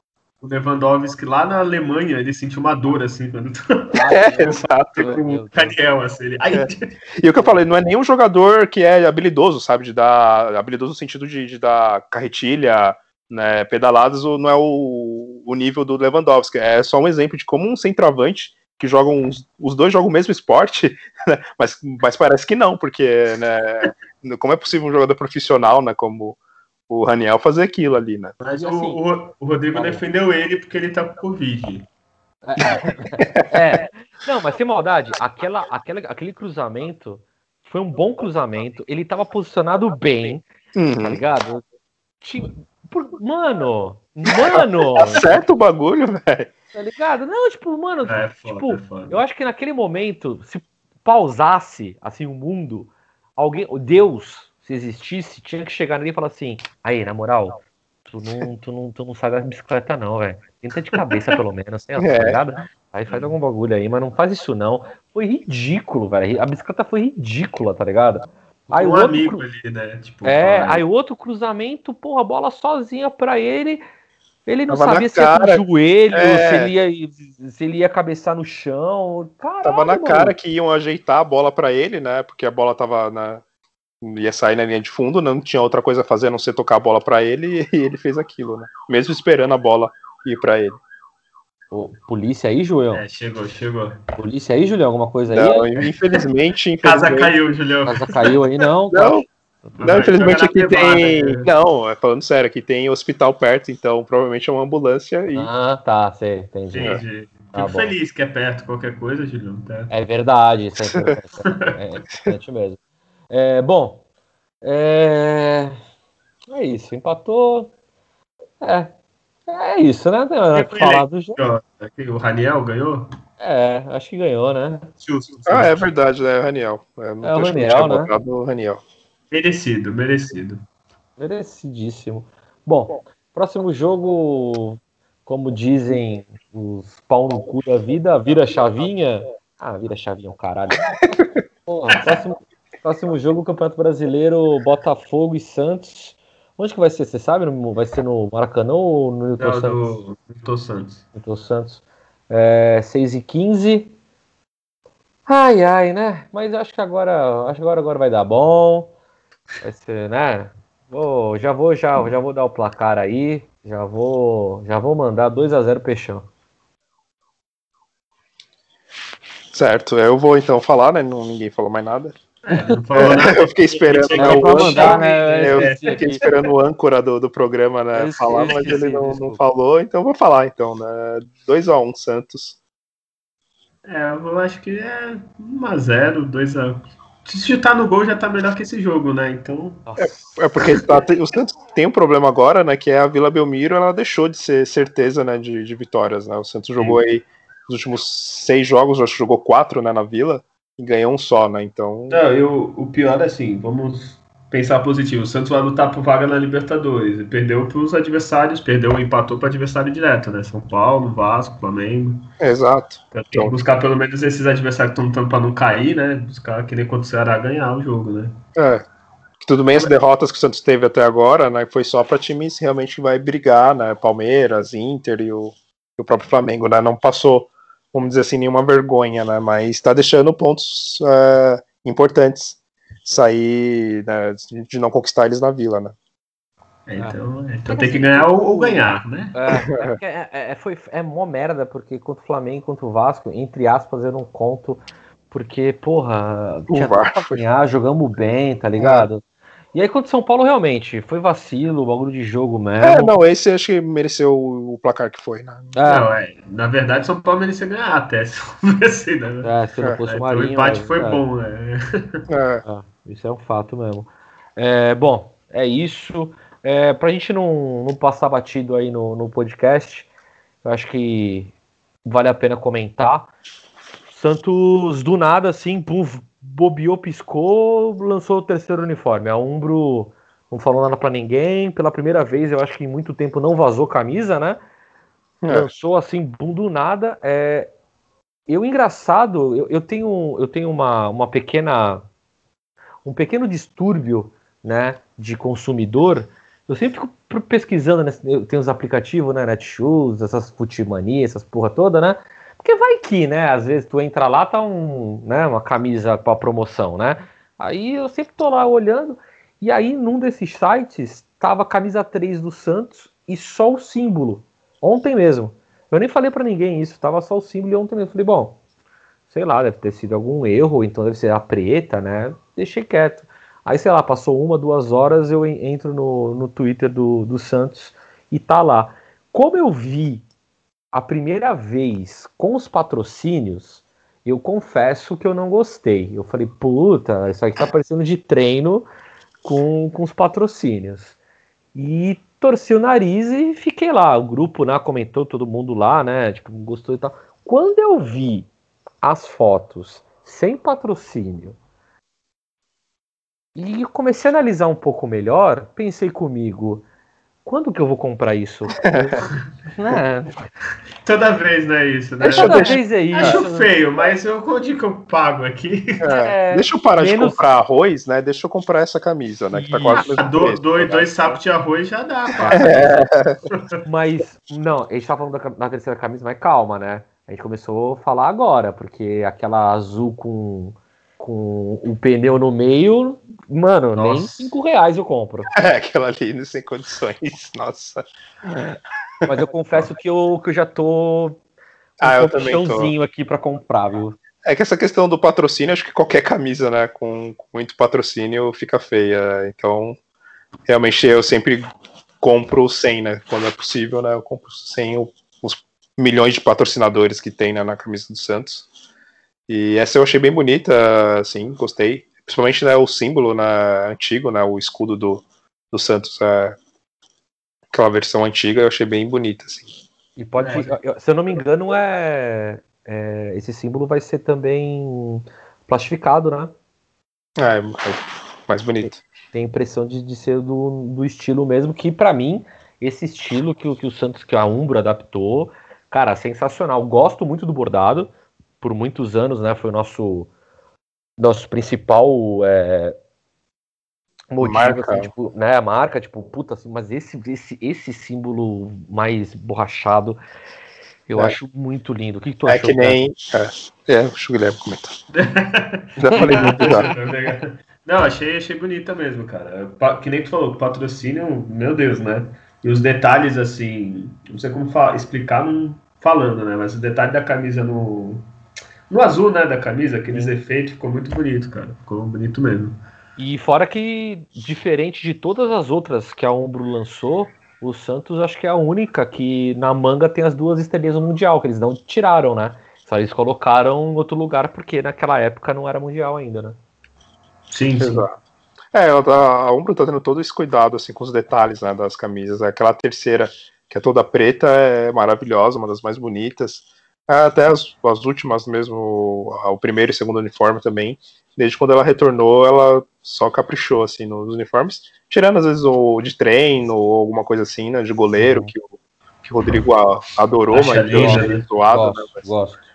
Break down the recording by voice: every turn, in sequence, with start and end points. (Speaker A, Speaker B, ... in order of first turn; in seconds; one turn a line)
Speaker A: 0.4-6.8
Speaker B: 3.9-5.8
Speaker C: 4.0-5.2
Speaker C: 6.5-28.3
Speaker A: 28.4-31.9
Speaker B: 28.6-29.0
Speaker B: 29.7-30.0
Speaker B: 32.4-40.4
Speaker C: 33.2-33.5
Speaker C: 40.7-41.2
Speaker B: 41.0-41.6
Speaker B: 42.2-45.4
Speaker C: 44.3-46.5
Speaker B: 46.7-69.4
Speaker A: 48.0-49.2
Speaker C: 62.0-62.4
Speaker A: 68.7-70.8
Speaker B: 70.2-73.8
Speaker B: 74.5-80.3
Speaker C: 74.7-76.7
Speaker C: 79.6-83.4
Speaker C: 84.0-90.8
Speaker B: 91.7-93.0
Speaker A: 92.9-94.0
Speaker B: 94.2-95.7
Speaker C: 95.3-97.3
Speaker A: 96.8-98.4
Speaker B: 97.8-99.2
Speaker C: 98.9-99.2
Speaker A: 99.8-101.5
Speaker C: 99.8-105.5
Speaker B: 105.3-107.0
Speaker A: 106.7-109.9
Speaker B: 107.5-107.9
Speaker B: 109.9-112.8
Speaker A: 111.4-111.8
Speaker B: 113.3-114.0
Speaker B: 114.6-115.8
Speaker B: 116.5-117.7
Speaker B: 118.6-118.9
Speaker B: 119.5-121.4
Speaker A: 120.5-123.1
Speaker B: 123.4-124.9
Speaker A: 125.0-125.9
Speaker C: 125.5-128.8
Speaker B: 127.2-128.1
Speaker A: 129.3-130.6
Speaker B: 131.2-150.0
Speaker A: 149.4-151.0
Speaker B: 151.1-153.9
Speaker B: 155.2-158.9
Speaker B: 159.6-166.3
Speaker C: 169.5-172.2
Speaker A: 172.4-176.4
Speaker B: 172.5-172.8
Speaker C: 172.9-182.6
Speaker B: 174.1-176.2
Speaker B: 177.9-179.4
Speaker A: 183.8-189.8
Speaker B: 189.8-190.4
Speaker C: 190.0-202.2
Speaker A: 202.1-212.2
Speaker C: 212.4-213.5
Speaker A: 213.1-218.3
Speaker C: 218.5-218.8
Speaker C: 219.4-235.9
Speaker A: 236.9-239.3
Speaker B: 236.9-249.2
Speaker C: 239.5-240.0
Speaker C: 246.7-247.4
Speaker C: 248.8-249.1
Speaker B: 249.7-253.2
Speaker C: 252.8-255.7
Speaker B: 255.7-256.1
Speaker A: 255.8-259.5
Speaker B: 259.4-261.2
Speaker A: 260.1-262.2
Speaker C: 262.3-262.6
Speaker B: 262.6-270.1
Speaker B: 270.6-271.5
Speaker B: 272.0-273.3
Speaker B: 274.1-284.6
Speaker C: 285.4-285.7
Speaker B: 285.5-287.7
Speaker B: 288.5-292.1
Speaker B: 293.0-318.6
Speaker B: 319.3-330.2
Speaker B: 330.9-338.9
Speaker B: 339.4-341.1
Speaker B: 341.7-348.5
Speaker B: 349.0-351.6
Speaker B: 353.6-356.8
Speaker B: 357.4-360.4
Speaker C: 358.8-359.2
Speaker A: 361.0-366.0
Speaker C: 362.2-363.4
Speaker B: 362.3-363.7
Speaker C: 366.0-371.4
Speaker B: 366.1-367.4
Speaker B: 369.5-370.1
Speaker A: 369.9-373.0
Speaker B: 372.4-373.1
Speaker C: 372.5-373.4
Speaker B: 373.8-385.5
Speaker A: 383.9-384.5
Speaker C: 385.5-389.9
Speaker B: 389.2-391.4
Speaker C: 392.0-392.9
Speaker B: 392.0-394.2
Speaker C: 394.4-400.0
Speaker C: 400.6-401.6
Speaker C: 402.2-408.7
Speaker C: 409.5-416.6
Speaker C: 417.7-419.7
Speaker B: 420.2-426.5
Speaker A: 420.4-420.8
Speaker C: 427.4-429.0
Speaker B: 428.8-440.3
Speaker B: 441.2-442.9
Speaker B: 444.3-450.2
Speaker C: 444.4-445.1
Speaker B: 451.1-453.0
Speaker C: 452.5-454.9
Speaker A: 455.1-468.2
Speaker C: 456.0-456.9
Speaker A: 468.9-472.8
Speaker B: 470.1-470.4
Speaker B: 473.2-486.6
Speaker A: 487.5-488.0
Speaker C: 487.8-488.1
Speaker C: 488.7-508.7
Speaker B: 508.2-508.5
Speaker C: 509.3-512.3
Speaker A: 510.5-511.4
Speaker B: 510.9-512.6